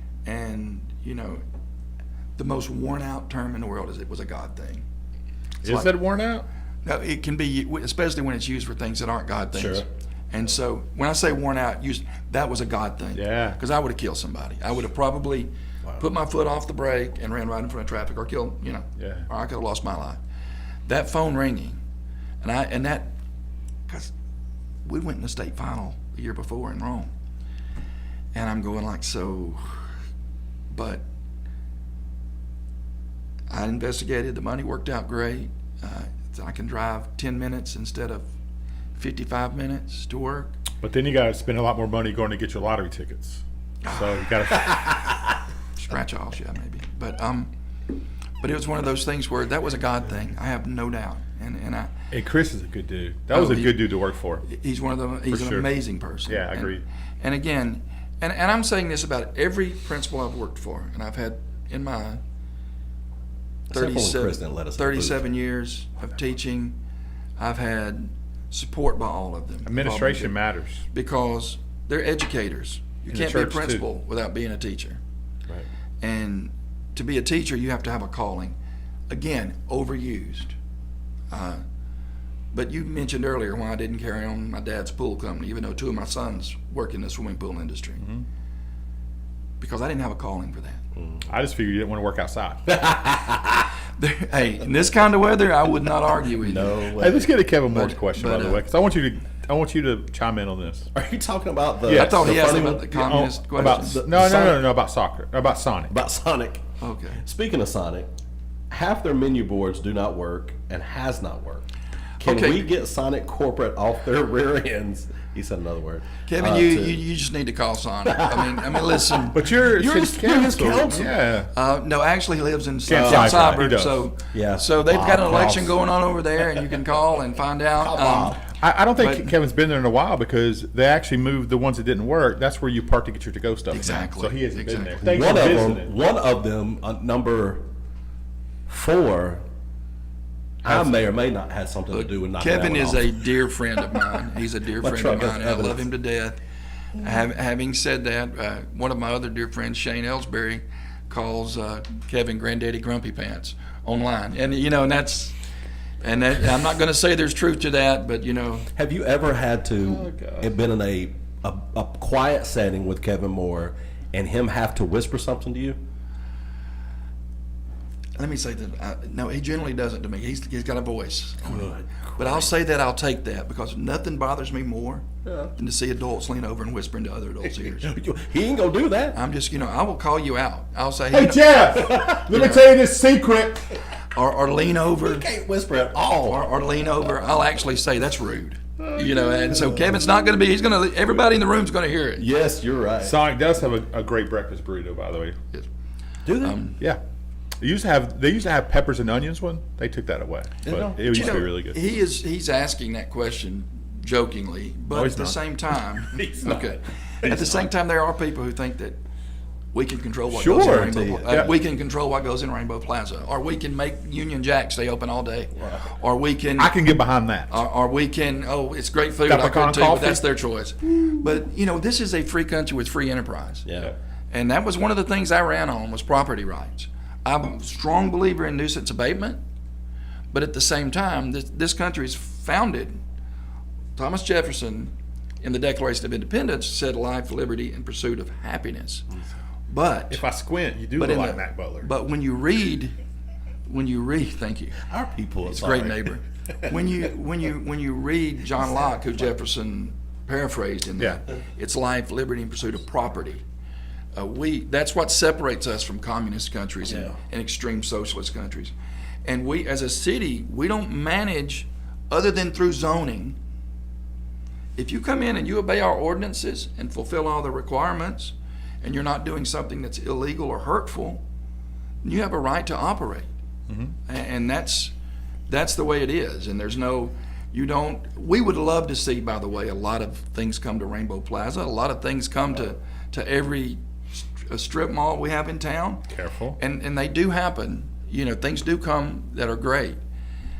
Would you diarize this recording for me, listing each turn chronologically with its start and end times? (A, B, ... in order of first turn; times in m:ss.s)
0:00.3-0:01.4 A
0:02.4-0:04.9 A
0:05.6-0:05.9 A
0:05.6-0:06.4 B
0:06.8-0:20.2 A
0:09.5-0:09.8 C
0:13.2-0:13.6 B
0:19.0-0:19.3 B
0:20.9-0:21.8 A
0:22.4-0:23.2 A
0:23.9-0:24.1 A
0:24.8-0:27.1 A
0:28.3-0:29.8 A
0:30.7-0:31.0 A
0:33.5-0:38.3 A
0:39.0-0:40.5 A
0:40.8-0:45.3 B
0:43.8-0:44.9 A
0:45.8-0:47.5 A
0:48.4-0:52.0 A
0:52.1-0:54.5 B
0:53.3-0:53.8 A
0:54.4-1:02.2 A
0:55.3-0:55.7 B
0:56.3-0:56.8 B
1:03.7-1:05.3 C
1:03.7-1:06.8 A
1:07.4-1:10.4 A
1:09.7-1:10.8 B
1:10.9-1:15.0 A
1:13.1-1:13.9 B
1:16.0-1:18.6 A
1:19.1-1:20.6 A
1:21.3-1:21.6 A
1:22.5-1:28.0 A
1:29.6-1:30.8 A
1:31.0-1:31.2 C
1:31.3-1:32.7 B
1:32.7-1:33.7 C
1:34.0-1:36.9 A
1:36.4-1:37.3 C
1:37.0-1:40.9 B
1:37.7-1:38.7 A
1:40.9-1:44.7 C
1:41.8-1:46.0 B
1:41.9-1:44.0 A
1:45.9-1:46.6 C
1:46.8-1:47.2 A
1:47.2-1:48.1 C
1:48.7-1:51.7 C
1:52.2-1:57.0 C
1:52.2-1:52.7 A
1:56.3-1:59.4 A
1:58.1-2:01.1 C
1:59.3-2:01.5 B
2:01.5-2:08.4 A
2:02.9-2:04.0 B
2:02.9-2:03.7 C
2:04.3-2:05.2 C
2:04.9-2:05.7 B
2:07.8-2:08.5 C
2:08.6-2:15.9 B
2:09.0-2:09.3 A
2:13.7-2:15.0 A
2:15.0-2:17.6 C
2:18.7-2:19.4 C
2:20.6-2:20.9 B
2:20.6-2:23.2 C
2:21.9-2:26.4 A
2:24.8-2:25.9 C
2:27.0-2:35.4 A
2:36.0-2:38.7 A
2:38.8-2:45.8 C
2:39.8-2:40.5 B
2:48.2-2:57.9 A
2:51.4-2:52.5 C
2:55.2-2:55.5 C
2:57.6-2:59.2 C
2:59.1-3:01.8 A
3:01.1-3:03.7 B
3:01.7-3:02.2 C
3:02.3-3:02.6 A
3:04.1-3:05.3 A
3:05.0-3:06.5 C
3:06.2-3:12.3 A
3:09.5-3:09.9 C
3:12.2-3:13.2 C
3:13.0-3:15.4 B
3:16.2-3:16.6 C
3:16.4-3:16.8 A
3:17.6-3:21.8 B
3:20.7-3:21.4 C
3:20.7-3:29.0 A
3:24.9-3:25.4 B
3:26.2-3:27.7 C
3:29.7-3:36.8 A
3:30.3-3:31.5 B
3:30.6-3:31.5 C
3:36.6-3:37.6 B
3:37.5-3:43.7 A
3:39.3-3:40.2 B
3:43.7-3:43.9 C
3:44.3-3:49.4 A
3:50.3-3:53.0 A
3:54.0-3:59.1 A
3:59.7-4:00.2 A
4:00.1-4:01.9 B
4:01.0-4:03.0 A
4:03.7-4:04.8 A
4:04.9-4:06.2 C
4:05.4-4:13.4 A
4:14.2-4:18.7 A
4:16.9-4:17.2 C
4:19.2-4:23.4 A
4:24.8-4:31.2 A
4:32.0-4:33.3 A
4:33.7-4:33.9 B
4:34.1-4:34.9 A
4:35.5-4:50.0 A
4:46.1-4:46.6 B